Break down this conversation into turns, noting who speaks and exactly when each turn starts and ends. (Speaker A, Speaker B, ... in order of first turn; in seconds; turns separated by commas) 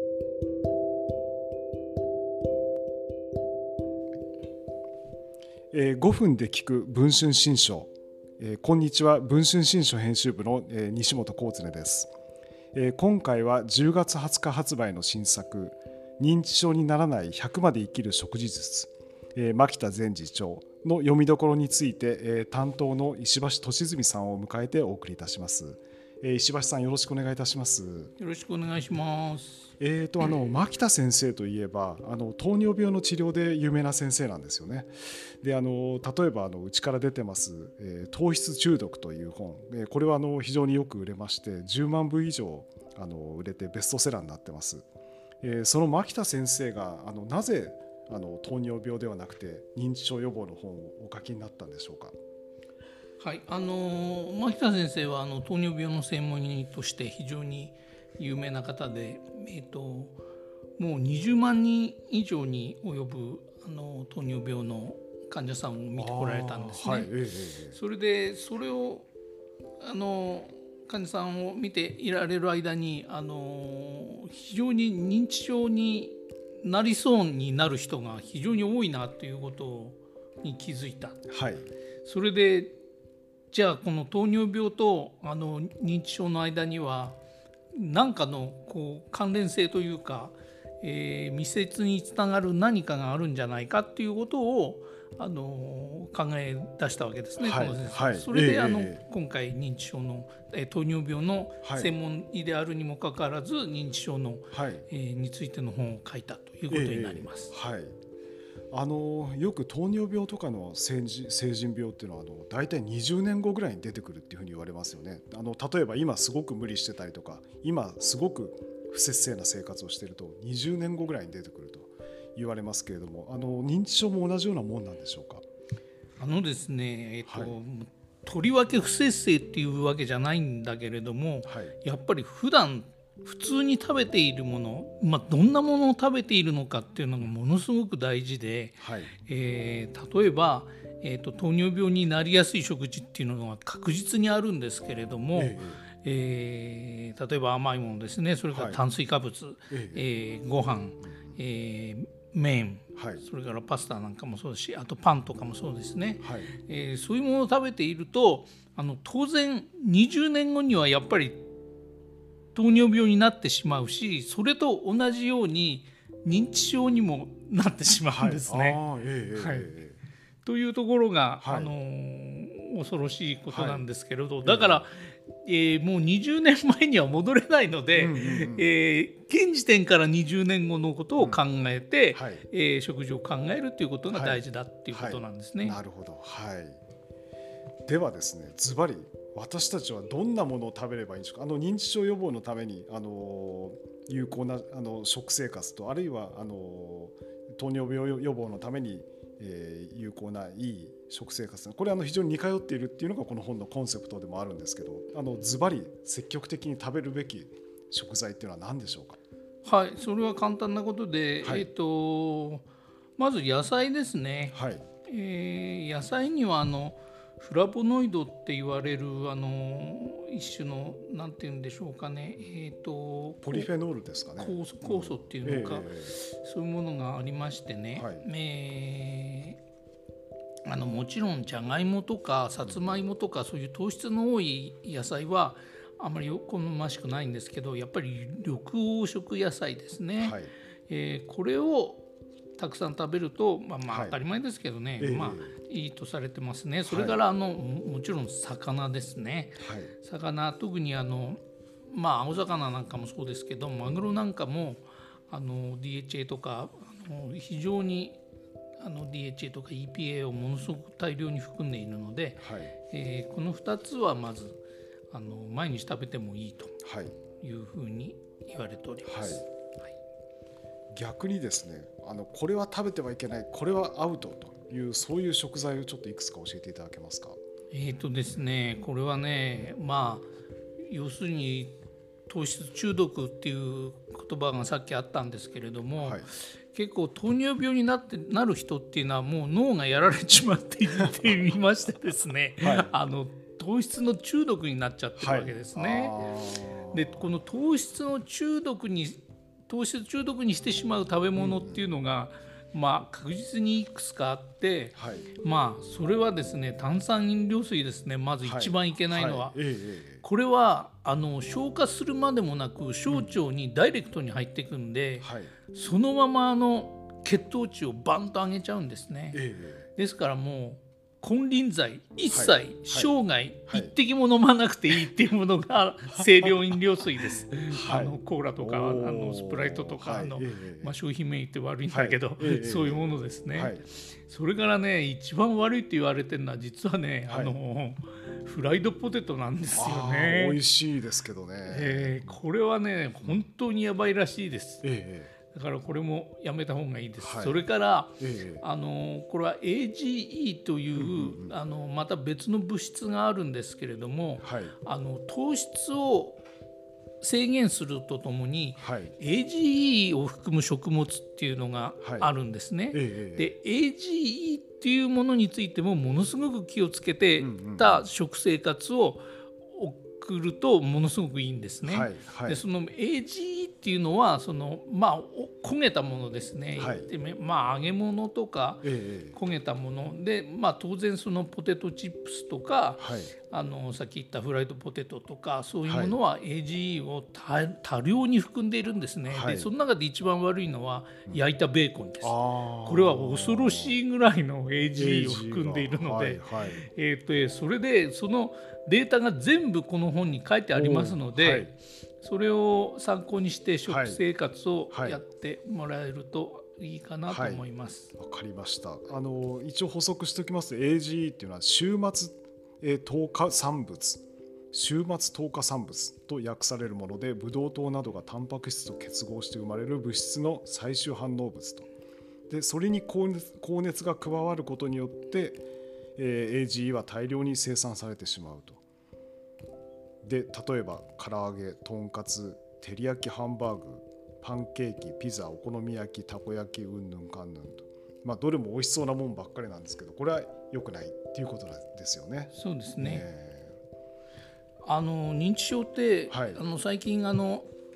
Speaker A: 5.7-12.1, Speaker A: 12.7-28.1, Speaker B: 28.2-29.7, Speaker A: 29.8-44.8, Speaker A: 45.4-52.1, Speaker B: 53.2-60.2, Speaker B: 60.8-67.1, Speaker A: 65.9-67.8, Speaker B: 67.7-69.1, Speaker B: 69.8-81.2, Speaker A: 81.3-81.7, Speaker B: 82.0-82.8, Speaker B: 83.5-87.2, Speaker B: 87.7-107.5, Speaker A: 97.4-99.0, Speaker A: 101.6-101.9, Speaker A: 104.5-104.9, Speaker A: 106.7-107.9, Speaker A: 108.7-125.4, Speaker B: 126.2-161.4, Speaker A: 127.3-127.5, Speaker A: 131.5-131.7, Speaker A: 138.8-139.1, Speaker A: 145.3-145.8, Speaker A: 148.5-148.8, Speaker A: 149.7-150.0, Speaker A: 152.9-153.2, Speaker A: 156.2-156.5, Speaker B: 162.5-168.8, Speaker A: 168.1-170.0, Speaker B: 169.3-169.7, Speaker B: 170.4-185.8, Speaker A: 171.4-171.7, Speaker A: 173.5-173.8, Speaker A: 174.4-174.8, Speaker A: 177.9-178.7, Speaker A: 181.2-181.4, Speaker A: 182.1-182.4, Speaker A: 184.1-186.8, Speaker A: 187.8-209.2, Speaker B: 209.6-212.7, Speaker A: 211.4-211.7, Speaker B: 213.2-223.7, Speaker A: 214.5-214.8, Speaker A: 223.4-226.2, Speaker B: 224.4-229.6, Speaker A: 227.9-228.2, Speaker B: 230.6-242.1, Speaker A: 232.6-233.0, Speaker A: 240.2-240.5, Speaker B: 242.6-258.2, Speaker A: 243.9-244.2, Speaker A: 245.0-245.5, Speaker A: 246.8-247.2, Speaker A: 249.6-249.9, Speaker B: 258.8-264.6, Speaker A: 262.4-262.7, Speaker B: 265.1-266.8, Speaker A: 266.8-267.2, Speaker B: 267.4-269.4, Speaker A: 269.0-269.4, Speaker A: 270.9-277.4, Speaker B: 277.7-280.3, Speaker B: 280.8-281.8, Speaker B: 282.3-296.3, Speaker A: 286.0-286.3, Speaker A: 292.6-292.9, Speaker A: 295.2-297.3, Speaker B: 296.9-309.6, Speaker A: 301.4-301.8, Speaker A: 304.9-305.3, Speaker A: 308.4-310.2, Speaker B: 310.2-319.4, Speaker A: 313.1-313.4, Speaker A: 315.2-315.5, Speaker A: 319.3-319.9, Speaker B: 319.9-340.6, Speaker A: 322.3-323.9, Speaker A: 326.1-326.7, Speaker A: 327.7-330.9, Speaker A: 331.9-333.8, Speaker A: 337.3-337.6, Speaker A: 339.7-342.4, Speaker B: 341.6-344.9, Speaker A: 344.8-345.3, Speaker B: 345.5-356.4, Speaker A: 347.2-347.6, Speaker A: 348.2-348.6, Speaker A: 350.9-351.6, Speaker A: 354.4-354.7, Speaker B: 357.2-408.1, Speaker A: 358.8-359.1, Speaker A: 362.0-362.3, Speaker A: 362.9-363.5, Speaker A: 367.4-368.0, Speaker A: 371.8-372.6, Speaker A: 376.8-377.1, Speaker A: 378.8-379.4, Speaker A: 383.0-383.3, Speaker A: 385.9-386.2, Speaker A: 389.2-389.7, Speaker A: 392.2-393.9, Speaker A: 394.9-396.8, Speaker A: 400.7-401.7, Speaker A: 403.9-404.2, Speaker A: 404.9-405.2, Speaker A: 407.3-407.6, Speaker A: 408.2-421.9, Speaker A: 422.5-425.6, Speaker A: 426.2-428.8, Speaker A: 430.2-443.7, Speaker B: 442.5-443.2, Speaker B: 444.8-447.7, Speaker A: 446.3-446.6